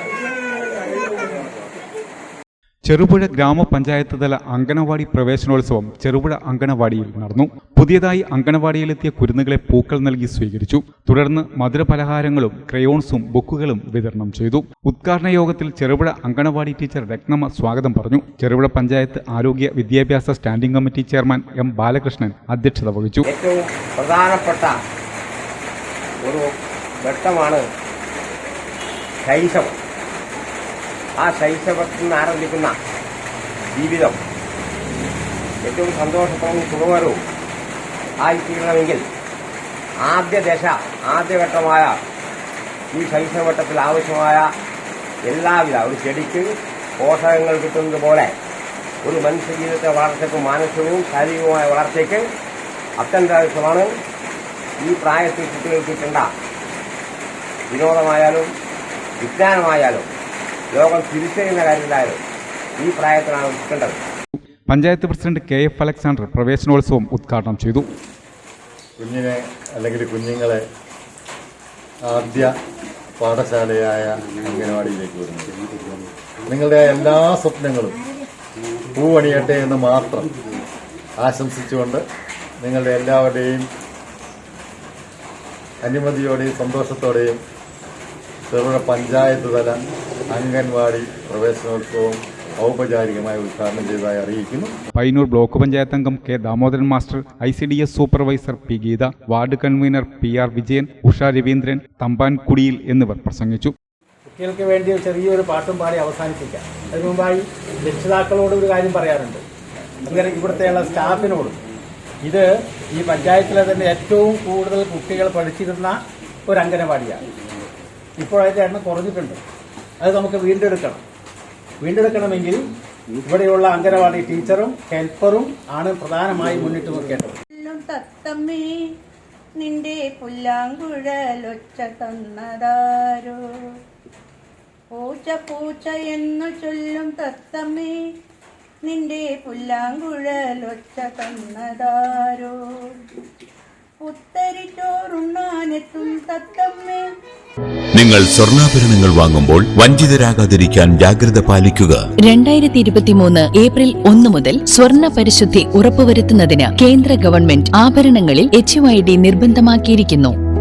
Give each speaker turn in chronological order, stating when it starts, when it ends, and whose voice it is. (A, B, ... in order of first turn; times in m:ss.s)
0:02.9-0:23.2 A
0:23.2-0:24.7 B
0:27.0-0:27.6 B
0:29.2-0:29.8 B
0:31.2-0:32.8 B
0:33.7-0:34.2 B
0:35.6-0:37.2 B
0:38.2-0:39.0 B
0:40.0-0:42.0 B
0:42.9-0:44.5 B
0:45.3-0:48.3 B
0:49.0-0:52.2 B
0:53.0-0:53.9 B
0:54.8-0:56.3 B
0:57.7-0:58.5 B
0:59.2-1:00.1 B
1:00.7-1:02.2 B
1:02.8-1:04.0 B
1:04.7-1:07.9 A
1:09.0-1:10.6 C
1:12.1-1:12.5 C
1:13.2-1:15.6 C
1:16.5-1:18.0 C
1:18.9-1:20.3 C
1:21.2-1:22.0 C
1:22.6-1:23.6 C
1:25.8-1:27.4 C
1:28.5-1:34.7 C
1:35.0-1:43.7 A
1:44.3-1:49.4 D
1:50.0-1:51.6 D
1:52.2-1:57.3 D
1:58.2-1:59.4 D
2:00.0-2:01.0 D
2:01.8-2:02.6 D
2:03.2-2:07.4 D
2:07.6-2:08.7 E
2:09.6-2:13.4 E
2:14.9-2:18.0 E
2:18.8-2:22.5 E
2:24.0-2:27.0 E
2:27.9-2:32.0 F
2:32.2-2:40.4 G